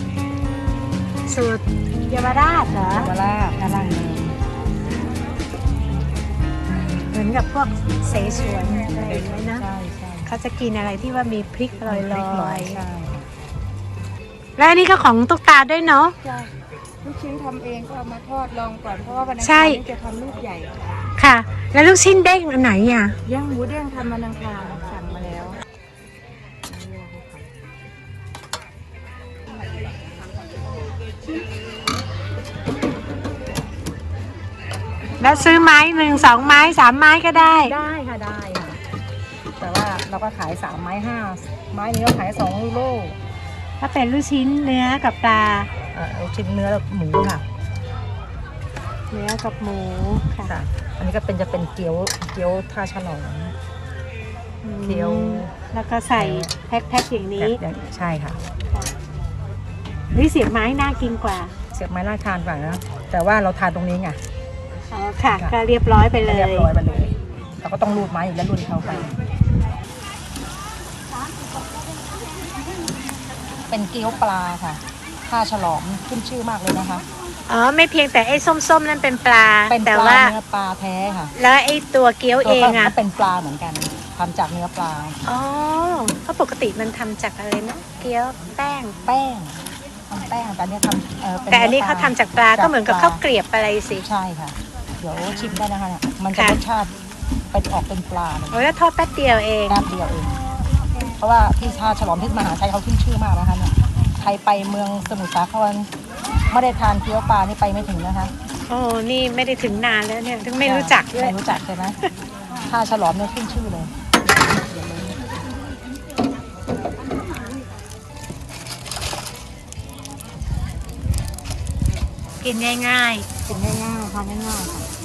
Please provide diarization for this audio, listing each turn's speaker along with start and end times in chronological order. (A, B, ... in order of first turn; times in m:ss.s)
0:01.3-0:03.1 A
0:02.7-0:04.4 B
0:07.0-0:09.6 A
0:08.9-0:10.4 B
0:10.2-0:12.8 A
0:11.8-0:13.3 B
0:14.6-0:16.4 A
0:17.0-0:20.9 C
0:19.4-0:19.9 A
0:21.2-0:23.2 A
0:23.2-0:25.5 B
0:23.3-0:25.5 C
0:26.9-0:27.4 B
0:35.2-0:37.7 A
0:37.5-0:38.8 B
0:39.6-0:43.2 B
0:43.8-0:45.7 A
0:45.9-0:47.4 B
0:49.1-0:50.5 A
0:50.4-0:53.5 B
0:54.6-0:57.6 A
0:54.8-0:55.5 B
0:56.2-0:56.5 B
0:57.4-0:58.4 B
1:00.1-1:01.6 A
1:01.7-1:04.2 B
1:04.9-1:06.7 A
1:06.2-1:09.1 B
1:13.7-1:17.0 B
1:17.5-1:20.3 A
1:19.7-1:21.3 B
1:21.3-1:22.9 A
1:22.4-1:25.2 B
1:25.2-1:29.0 A
1:29.0-1:33.2 B
1:31.5-1:34.0 A
1:34.0-1:36.9 B
1:35.2-1:35.6 A
1:37.5-1:38.6 B
1:38.5-1:39.8 A
1:39.7-1:40.4 B
1:41.2-1:45.9 B
1:46.5-1:48.3 B
1:48.7-1:51.4 A
1:50.6-1:52.0 B
1:52.6-1:53.9 B
1:54.8-1:55.2 B
2:02.4-2:03.3 A
2:03.4-2:04.9 B